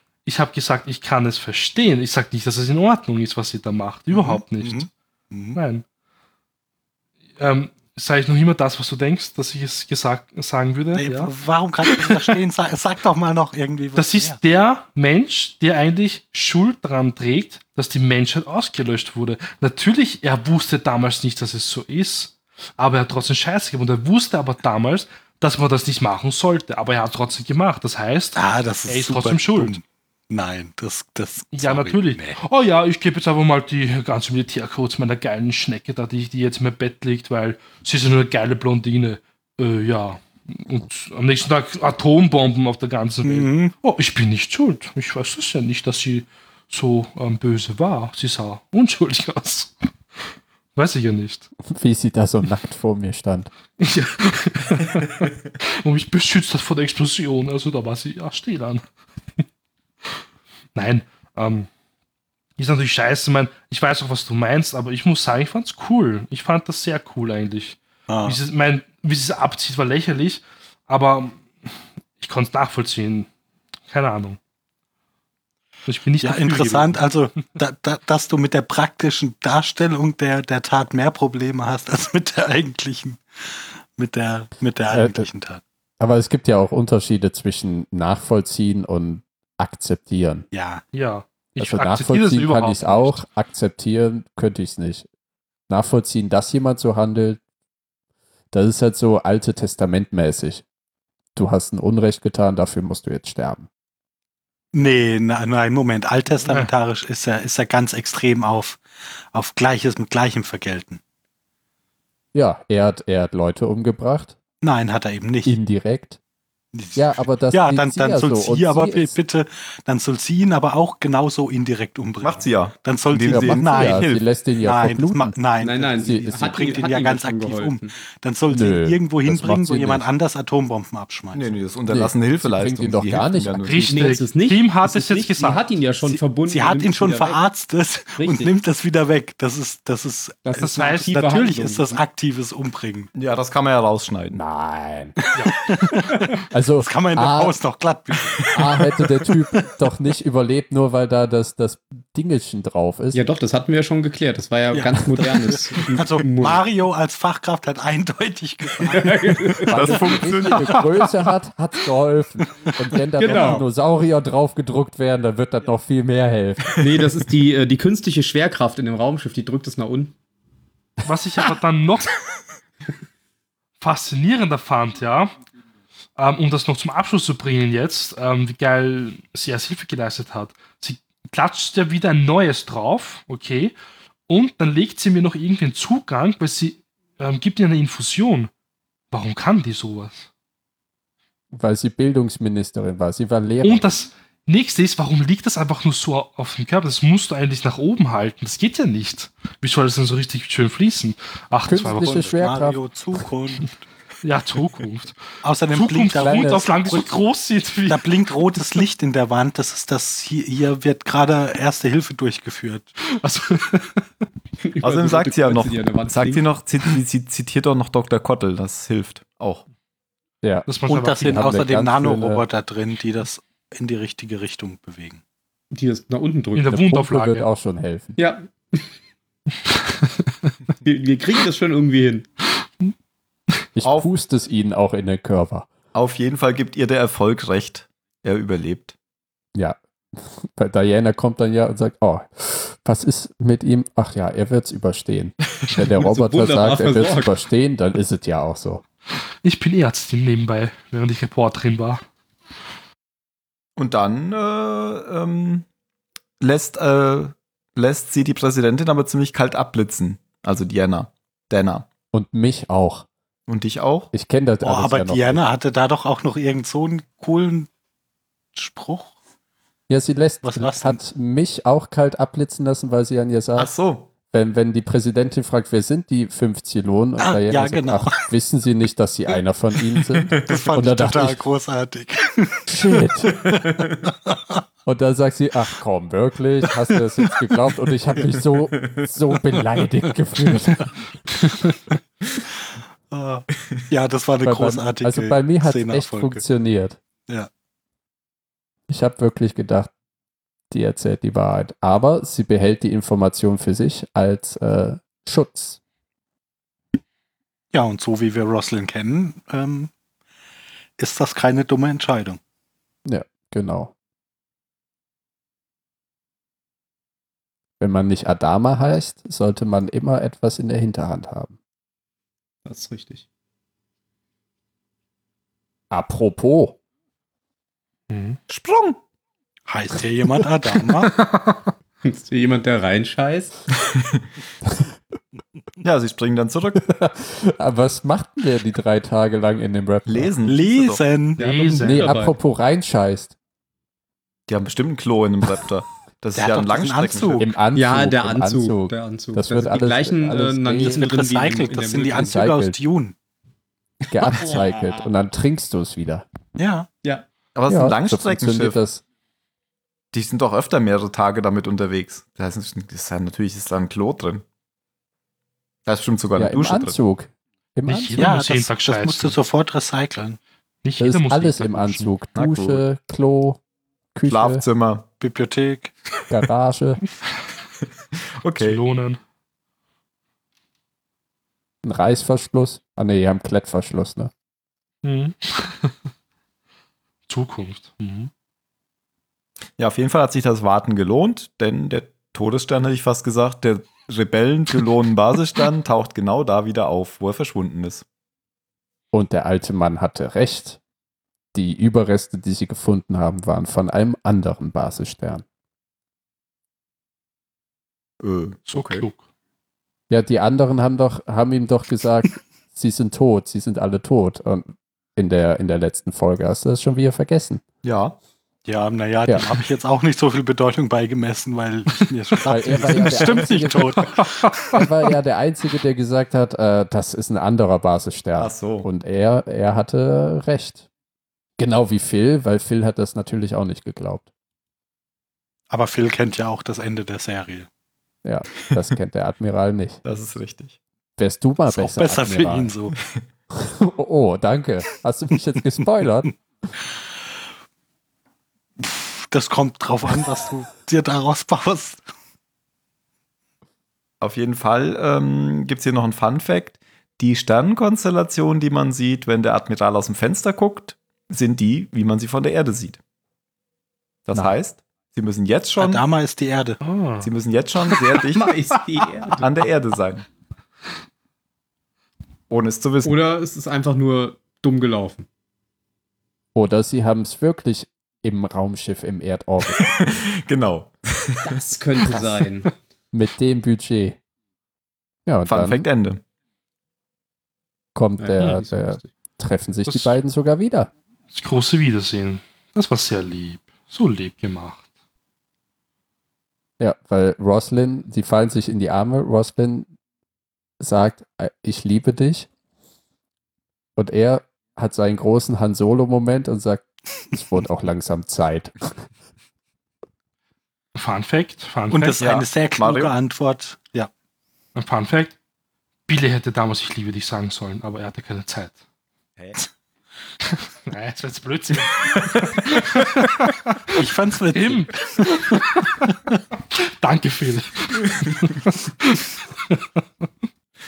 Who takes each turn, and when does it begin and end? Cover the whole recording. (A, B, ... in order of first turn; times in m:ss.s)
0:00.2-0:04.9 A
0:04.1-0:05.6 B
0:05.5-0:05.8 A
0:07.4-0:11.3 A
0:10.9-0:14.4 B
0:11.8-0:12.3 A
0:14.0-0:29.8 A
0:28.3-0:32.4 B
0:31.5-0:49.7 A
0:43.2-0:43.7 B
0:50.7-0:51.5 A
0:51.7-0:53.5 C
0:53.8-0:58.8 A
1:00.7-1:01.7 A
1:02.6-1:11.4 A
1:08.1-1:08.4 B
1:12.2-1:13.3 A
1:13.9-1:14.4 A
1:15.9-1:17.0 A
1:16.2-1:25.6 B
1:24.9-1:25.3 C
1:26.0-1:30.4 C
1:30.5-1:30.8 B
1:30.9-1:33.2 A
1:31.6-1:35.1 C
1:35.7-1:37.4 C
1:38.5-1:40.6 C
1:41.4-1:43.7 C
1:44.7-1:51.0 B
1:52.3-1:54.3 C
1:54.6-1:55.5 B
1:55.4-1:56.2 C
1:56.7-2:04.1 B
1:56.9-1:59.2 C
2:02.2-2:04.2 D
2:03.3-2:05.4 C
2:04.6-2:11.5 B
2:05.6-2:07.9 E
2:06.0-2:06.7 C
2:08.5-2:10.0 C
2:11.3-2:13.8 D
2:11.9-2:14.1 C
2:13.6-2:15.6 A
2:13.8-2:17.4 E
2:16.0-2:23.1 B
2:18.2-2:18.5 E
2:20.4-2:22.0 E
2:20.6-2:21.1 A
2:23.1-2:24.4 D
2:24.3-2:25.2 C
2:25.4-2:25.7 A
2:25.4-2:28.8 B
2:26.5-2:27.6 C
2:28.5-2:33.2 C
2:33.1-2:36.6 E
2:34.7-2:39.6 B
2:38.8-2:40.2 E
2:39.6-2:46.7 C
2:39.7-2:40.8 D
2:43.2-2:43.6 E
2:43.2-2:43.6 D
2:46.8-2:50.1 E
2:51.0-2:52.2 A
2:53.8-2:55.3 A
2:56.2-3:03.7 A
3:04.3-3:08.5 A
3:09.1-3:10.2 A
3:11.5-3:14.0 C
3:13.6-3:22.3 A
3:21.7-3:22.8 C
3:21.8-3:23.8 B
3:24.2-3:25.2 A
3:25.4-3:27.1 B
3:25.7-3:28.0 A
3:26.2-3:26.7 C
3:27.8-3:32.9 B
3:33.2-3:34.0 A
3:34.6-3:36.4 E
3:34.8-3:39.6 D
3:40.4-3:40.7 C
3:40.7-3:41.4 A
3:40.8-3:45.2 B
3:41.2-3:42.4 C
3:45.7-3:46.8 E
3:46.5-3:47.4 A
3:46.7-3:48.2 C
3:48.2-3:48.9 E
3:49.7-3:50.5 A
3:50.8-3:52.3 E
3:53.8-3:55.7 C
3:53.8-3:54.1 D
3:55.9-3:58.9 D
3:59.5-4:08.8 C
4:06.0-4:07.3 E
4:09.4-4:12.0 A
4:13.8-4:15.6 D
4:16.4-4:21.9 D
4:22.1-4:23.0 C
4:23.5-4:24.1 D
4:24.1-4:25.4 C
4:24.6-4:27.7 B
4:28.5-4:29.1 B
4:29.9-4:33.7 C
4:30.4-4:31.0 B
4:33.6-4:34.1 D
4:34.3-4:41.4 C
4:37.2-4:38.2 B
4:40.4-4:42.7 B
4:42.7-4:43.4 C
4:43.2-4:44.5 B
4:44.8-4:50.9 C
4:48.8-4:49.1 D
4:53.1-4:56.4 B
4:54.4-4:57.0 C
4:58.9-4:59.9 C
5:00.7-5:05.8 C
5:07.7-5:09.9 B
5:11.0-5:12.4 B
5:13.0-5:13.9 C
5:17.8-5:21.5 C
5:22.6-5:23.2 E
5:25.9-5:26.8 C
5:28.1-5:28.4 A
5:28.5-5:29.0 D
5:29.7-5:31.1 B
5:31.1-5:31.6 A
5:32.0-5:33.5 E
5:33.9-5:34.2 D
5:35.8-5:36.8 D
5:36.8-5:40.3 C
5:40.0-5:41.0 D
5:40.4-5:41.4 B
5:41.4-5:42.3 E
5:41.4-5:42.2 A
5:41.8-5:43.3 C
5:44.5-5:47.5 D
5:46.4-5:47.5 B
5:47.4-5:51.0 C
5:47.7-5:52.4 E
5:50.8-5:53.1 B
5:52.1-5:52.8 C
5:54.1-5:56.2 C
5:54.3-5:54.8 E
5:56.6-5:56.9 B
5:57.5-5:58.8 D
5:57.7-5:59.0 C
6:00.1-6:04.4 D
6:05.8-6:07.0 D
6:06.3-6:08.3 C
6:07.9-6:09.4 A
6:08.2-6:10.4 B
6:10.8-6:12.1 A
6:11.0-6:13.6 C
6:12.3-6:12.8 D
6:14.1-6:14.6 C
6:14.3-6:15.1 D
6:15.2-6:15.9 B
6:16.3-6:17.0 C
6:18.4-6:18.8 D
6:18.6-6:19.2 A
6:21.8-6:24.3 C
6:25.0-6:25.9 A
6:27.3-6:28.3 A
6:29.8-6:38.0 D
6:39.1-6:40.8 C
6:41.5-6:45.4 C
6:48.2-6:49.0 D
6:48.7-6:49.2 A
6:50.1-6:57.6 C
6:57.8-6:58.2 D
6:58.6-7:04.5 B
7:02.5-7:04.1 C
7:04.0-7:04.8 A
7:04.7-7:10.8 C
7:08.4-7:08.9 D
7:11.6-7:14.3 C
7:15.7-7:17.7 B
7:18.2-7:20.0 C
7:20.0-7:20.8 D
7:21.2-7:22.7 C
7:21.6-7:22.9 B
7:23.5-7:26.3 C
7:28.8-7:32.0 B
7:34.2-7:43.0 D
7:44.3-7:46.0 D
7:45.8-7:46.8 B
7:46.8-7:47.3 A
7:47.2-7:48.6 D
7:48.3-7:49.5 E
7:49.3-7:50.3 D
7:52.5-7:53.2 D
7:53.0-7:55.3 E
7:56.5-7:59.9 C
7:59.7-8:01.5 D
8:01.4-8:02.7 E
8:02.1-8:02.4 C
8:03.1-8:04.2 C
8:05.2-8:05.8 C
8:05.5-8:06.2 D
8:07.9-8:10.9 C
8:08.2-8:09.1 E
8:09.9-8:10.2 A
8:11.3-8:14.8 A
8:16.8-8:19.9 C
8:20.8-8:22.5 C
8:24.0-8:28.9 C
8:30.9-8:32.2 A
8:31.9-8:34.1 B
8:32.2-8:33.1 D
8:34.7-8:35.4 A
8:36.1-8:38.8 A
8:40.5-8:44.0 A
8:44.0-8:45.6 B
8:44.5-8:45.9 A
8:47.0-8:49.8 A